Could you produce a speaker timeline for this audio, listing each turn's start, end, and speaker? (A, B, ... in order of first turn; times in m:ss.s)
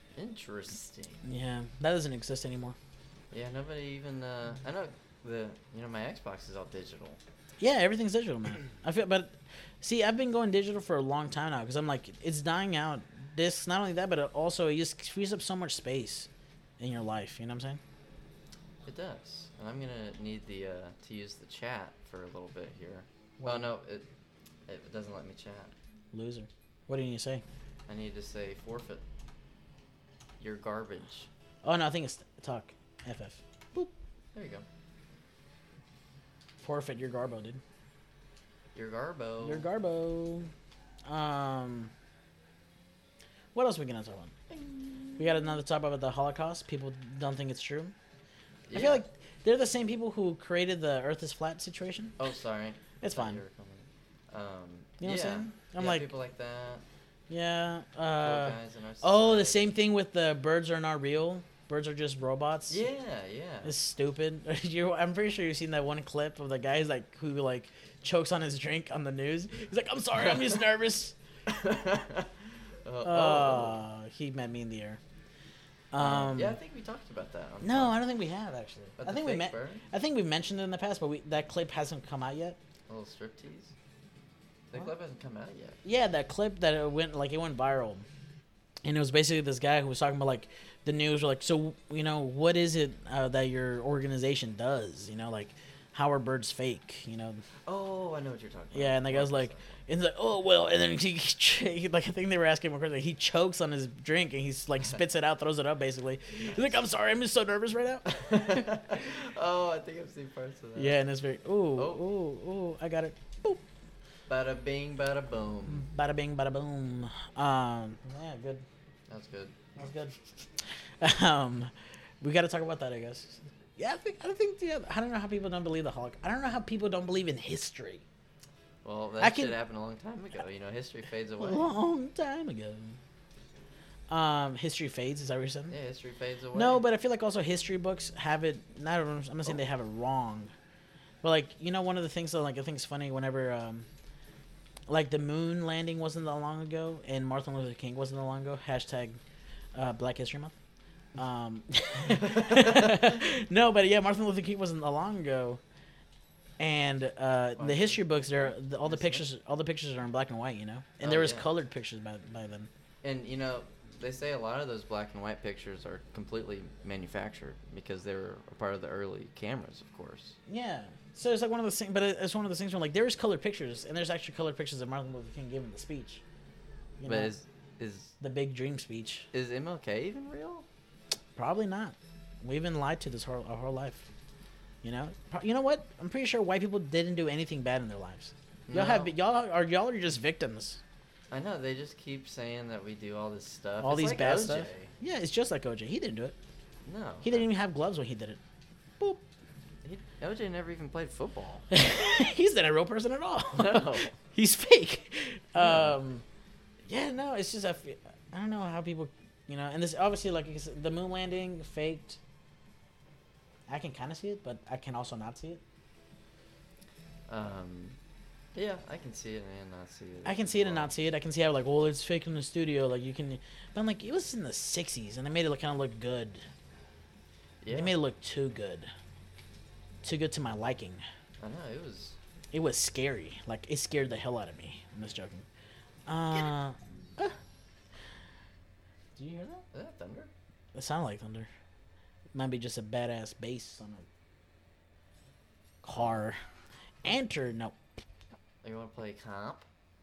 0:00.2-0:01.2 A
0:01.2-0:02.8 B
0:03.3-0:07.2 A
0:07.6-0:17.8 B
0:18.8-0:24.1 A
0:23.4-0:23.7 B
0:24.7-0:25.7 A
0:26.1-0:27.4 B
0:27.9-0:29.0 A
0:30.4-0:31.3 A
0:31.6-0:33.9 B
0:34.3-0:34.7 A
0:36.6-0:37.6 B
0:38.7-0:39.6 A
0:39.4-0:40.5 B
0:41.1-0:41.9 B
0:43.5-0:44.3 B
0:44.5-0:45.6 A
0:45.2-0:48.0 B
0:48.7-0:49.0 A
0:48.7-0:52.2 B
0:52.2-0:56.8 A
0:53.0-0:53.4 B
0:55.0-0:56.1 B
0:57.3-1:02.8 B
0:58.2-0:59.7 A
1:02.7-1:03.7 A
1:03.6-1:11.2 B
1:11.5-1:12.3 A
1:12.8-1:13.8 A
1:13.0-1:15.0 B
1:15.9-1:16.6 B
1:16.0-1:18.0 A
1:17.6-1:22.6 B
1:19.0-1:19.8 A
1:22.9-1:23.7 A
1:24.7-1:25.8 A
1:25.8-1:28.0 B
1:28.8-1:37.4 B
1:37.7-1:39.8 A
1:38.7-1:48.7 B
1:46.4-1:46.8 A
1:48.1-1:51.0 A
1:50.8-1:53.6 B
1:51.8-1:52.0 A
1:54.3-1:55.8 A
1:55.7-1:58.6 B
1:59.1-1:59.6 A
1:59.8-2:00.2 B
2:01.0-2:08.0 B
2:08.8-2:11.7 A
2:09.2-2:09.6 B
2:11.4-2:13.0 B
2:14.1-2:15.8 B
2:15.7-2:16.8 A
2:16.5-2:20.5 B
2:21.2-2:23.9 B
2:24.9-2:29.2 B
2:29.8-2:30.6 B
2:31.2-2:35.6 B
2:32.1-2:33.2 A
2:36.6-2:42.7 B
2:37.6-2:39.2 A
2:41.0-2:41.5 A
2:43.0-2:50.4 A
2:50.5-2:56.2 B
2:57.0-2:57.3 B
2:57.1-2:58.1 A
2:58.2-2:59.3 B
2:59.3-3:00.7 A
3:01.4-3:04.1 B
3:04.8-3:10.8 B
3:08.7-3:09.1 A
3:11.3-3:14.9 A
3:13.8-3:16.4 B
3:16.8-3:17.5 A
3:17.2-3:18.4 B
3:19.8-3:21.6 A
3:21.7-3:26.2 B
3:23.6-3:24.1 A
3:25.6-3:26.0 A
3:26.8-3:32.2 B
3:33.7-3:35.6 B
3:37.3-3:38.0 A
3:38.5-3:41.0 A
3:40.2-3:46.5 B
3:47.6-3:48.0 A
3:47.7-3:48.9 B
3:50.0-3:51.0 B
3:51.4-3:52.2 A
3:52.5-3:55.4 B
3:56.1-3:57.4 B
3:59.2-3:59.6 B
3:59.7-4:00.3 A
4:00.7-4:01.5 B
4:02.3-4:04.1 B
4:05.8-4:06.4 B
4:07.0-4:07.8 B
4:08.6-4:09.7 A